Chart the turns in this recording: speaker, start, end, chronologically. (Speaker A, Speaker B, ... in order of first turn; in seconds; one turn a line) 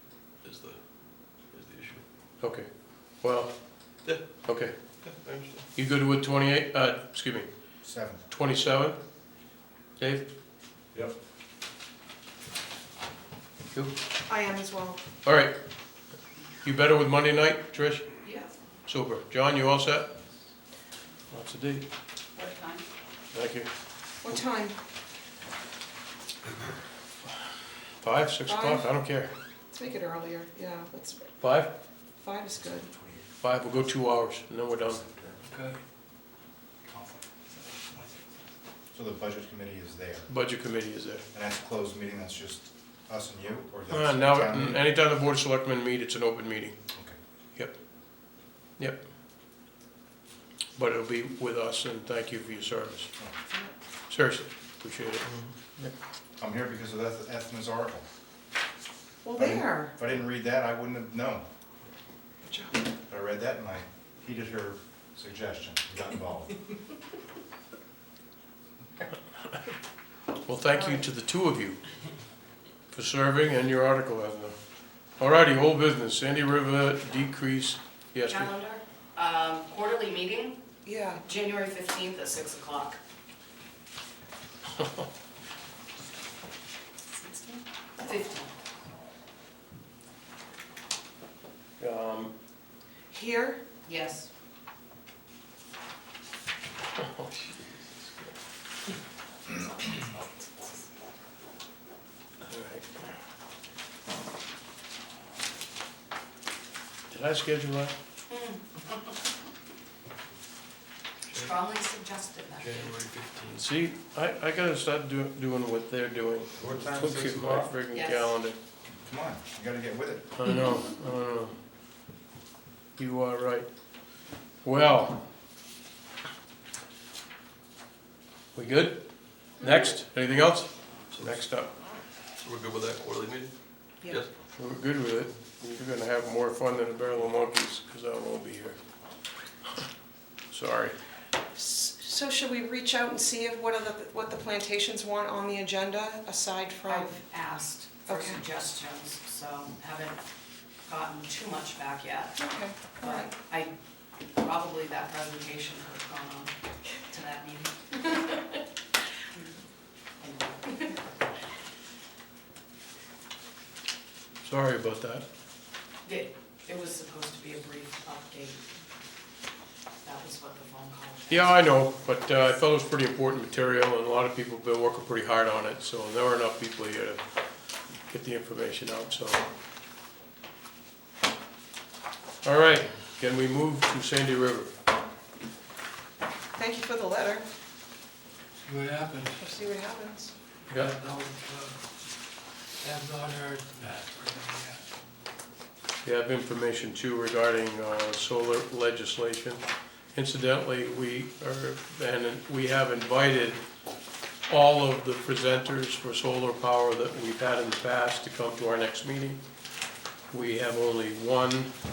Speaker A: 0.4-2.0
Speaker B: 2.4-4.7
Speaker A: 4.0-4.3
Speaker A: 5.0-5.7
Speaker B: 5.8-7.5
Speaker C: 7.8-8.2
Speaker B: 8.3-9.0
Speaker B: 10.0-10.3
Speaker D: 14.2-15.0
Speaker B: 15.2-15.5
Speaker B: 16.6-18.1
Speaker E: 18.2-18.5
Speaker B: 18.9-20.1
Speaker B: 21.3-21.8
Speaker E: 22.3-22.9
Speaker B: 23.3-23.7
Speaker D: 24.2-24.8
Speaker B: 28.0-29.3
Speaker D: 28.5-28.9
Speaker D: 29.7-31.3
Speaker B: 31.4-31.7
Speaker D: 32.2-32.9
Speaker B: 33.4-35.0
Speaker F: 35.5-35.8
Speaker C: 36.9-37.2
Speaker C: 38.9-40.3
Speaker B: 40.3-41.2
Speaker C: 41.3-44.8
Speaker B: 43.9-46.8
Speaker B: 50.8-53.1
Speaker B: 54.1-55.9
Speaker A: 55.2-55.5
Speaker C: 56.4-58.0
Speaker D: 59.2-59.9
Speaker C: 59.4-61.5
Speaker D: 62.5-62.8
Speaker C: 63.1-66.6
Speaker B: 70.4-71.8
Speaker D: 70.7-71.0
Speaker B: 72.9-74.5
Speaker B: 75.2-78.5
Speaker E: 78.2-80.6
Speaker D: 80.8-81.2
Speaker E: 81.2-83.0
Speaker E: 87.2-88.5
Speaker B: 91.8-92.3
Speaker D: 93.1-93.6
Speaker E: 93.9-94.3
Speaker B: 102.4-102.9
Speaker B: 107.1-107.9
Speaker E: 108.3-108.8
Speaker A: 111.3-111.5
Speaker E: 111.3-112.9
Speaker A: 112.6-113.6
Speaker B: 113.5-118.6
Speaker C: 116.7-117.3
Speaker E: 117.9-118.3
Speaker C: 119.0-120.3
Speaker B: 120.3-121.5
Speaker B: 123.0-123.7
Speaker B: 124.6-125.2
Speaker B: 128.5-131.7
Speaker A: 131.1-131.4
Speaker A: 132.4-133.5
Speaker B: 134.5-138.8
Speaker B: 140.5-140.9
Speaker D: 141.6-147.2
Speaker E: 146.8-150.2
Speaker D: 148.1-148.4
Speaker E: 150.8-152.4
Speaker D: 152.4-153.3
Speaker E: 152.9-153.7
Speaker E: 154.3-158.3
Speaker E: 160.2-161.0
Speaker B: 164.4-165.2
Speaker E: 166.1-168.7
Speaker E: 170.0-171.7
Speaker B: 171.3-177.2
Speaker B: 178.1-179.4
Speaker B: 182.4-184.7
Speaker D: 186.6-187.5
Speaker F: 188.6-189.5
Speaker D: 189.4-190.3
Speaker B: 190.7-190.9
Speaker F: 190.7-191.9
Speaker F: 192.8-194.9
Speaker B: 196.0-203.6
Speaker B: 204.5-209.4
Speaker B: 210.3-211.7